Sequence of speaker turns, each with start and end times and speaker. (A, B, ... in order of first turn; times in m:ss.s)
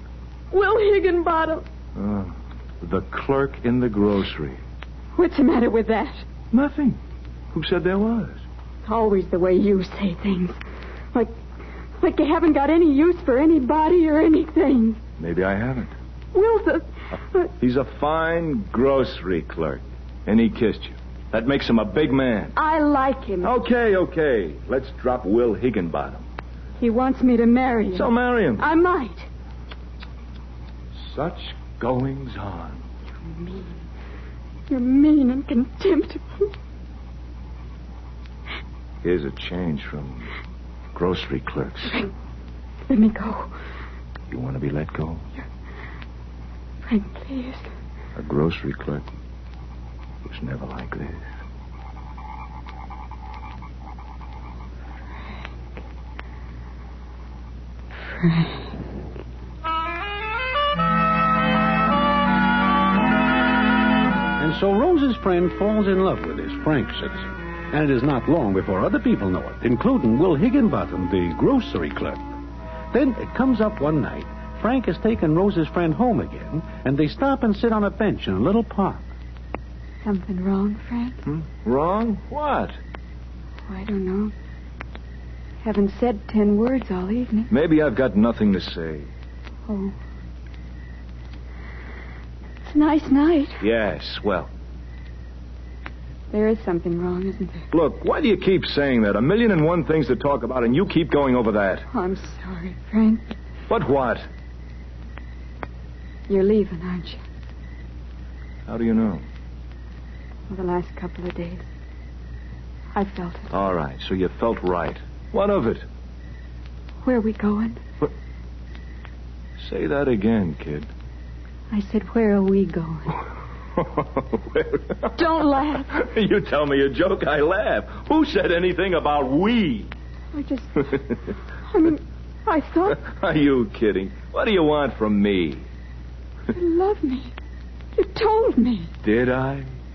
0:00.5-0:01.7 A
0:02.0-0:04.6 B
0:05.2-0:06.2 A
0:06.5-0:07.0 B
0:07.5-0:08.4 B
0:08.8-0:10.6 A
0:11.1-0:11.4 A
0:12.0-0:15.0 A
0:15.2-0:15.9 B
0:16.3-0:17.5 A
0:17.6-0:22.6 B
0:22.6-0:23.6 A
0:23.4-0:26.2 B
0:26.8-0:29.2 A
0:27.9-0:28.7 B
0:31.0-0:32.8 B
0:33.2-0:33.8 A
0:34.7-0:36.5 A
0:39.0-0:40.3 B
0:40.9-0:42.0 B
0:42.9-0:43.5 A
0:44.3-0:45.2 B
0:46.8-0:47.7 A
0:48.2-0:49.0 B
0:50.2-0:51.2 B
0:55.2-0:55.5 A
0:58.0-0:58.8 A
1:04.4-1:12.3 C
1:12.9-1:19.0 C
1:20.0-1:21.2 A
1:21.3-1:22.8 B
1:23.7-1:24.3 A
1:25.6-1:27.5 A
1:27.5-1:29.1 B
1:29.7-1:30.0 A
1:32.6-1:33.6 A
1:33.6-1:34.5 B
1:36.3-1:37.7 A
1:37.7-1:41.9 B
1:41.9-1:43.3 A
1:43.7-1:44.2 B
1:46.3-1:47.2 A
1:48.7-1:49.2 B
1:50.5-1:51.6 A
1:52.9-1:53.5 A
1:53.5-1:55.9 B
1:57.0-1:57.8 A
1:59.6-2:00.9 B
2:01.7-2:03.2 A
2:03.8-2:05.4 B
2:05.2-2:06.0 A
2:05.9-2:09.9 B
2:10.3-2:11.1 A
2:11.7-2:13.0 A
2:13.0-2:15.7 B
2:16.5-2:17.3 A
2:18.0-2:18.9 A
2:19.0-2:19.7 B